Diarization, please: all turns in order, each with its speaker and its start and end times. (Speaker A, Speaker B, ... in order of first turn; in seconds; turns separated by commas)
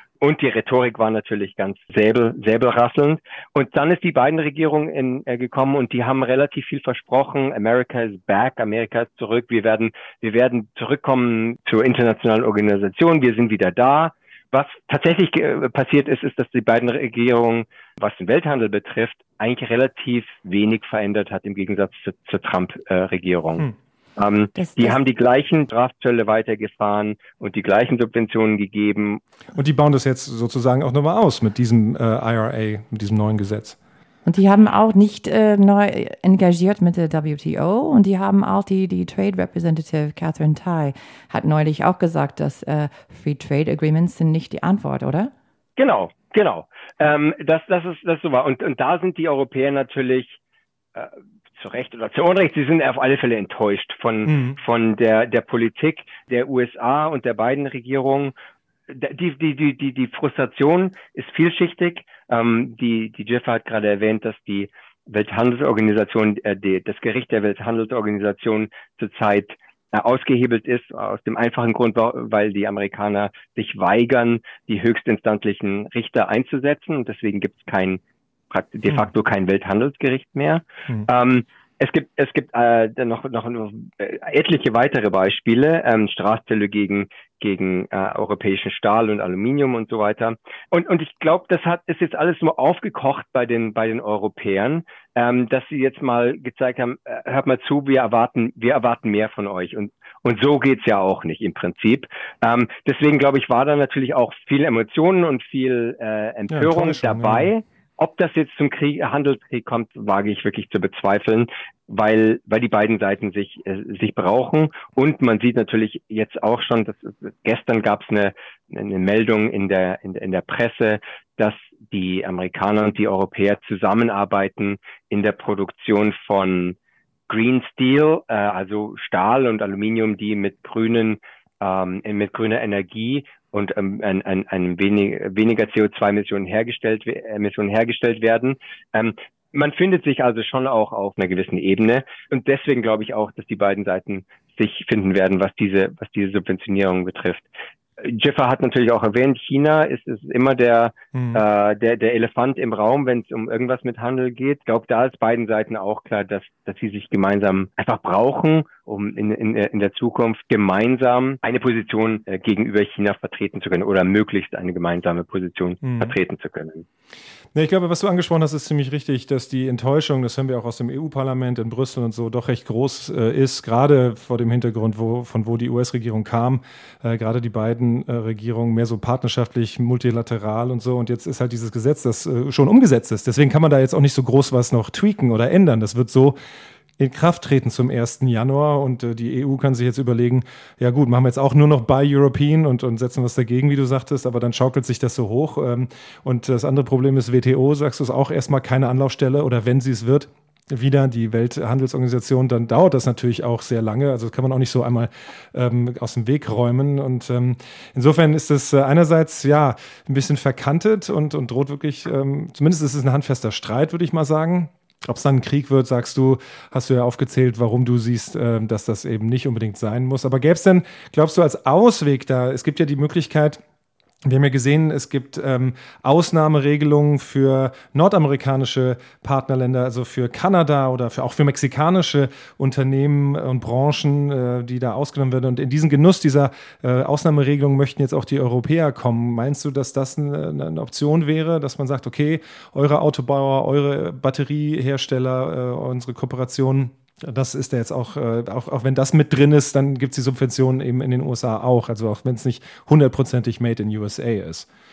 Speaker A: 0.2-23.6, Speaker A: 24.2-29.2, Speaker B: 24.6-25.0, Speaker C: 29.5-33.8, Speaker B: 34.2-45.3, Speaker A: 45.8-50.4, Speaker A: 50.9-58.3, Speaker C: 54.3-54.5, Speaker A: 58.9-126.8, Speaker C: 106.5-107.5, Speaker A: 127.3-147.5, Speaker A: 148.0-166.8, Speaker C: 151.1-151.4, Speaker C: 165.8-166.1, Speaker C: 167.5-186.4, Speaker C: 187.0-223.6, Speaker C: 224.2-254.7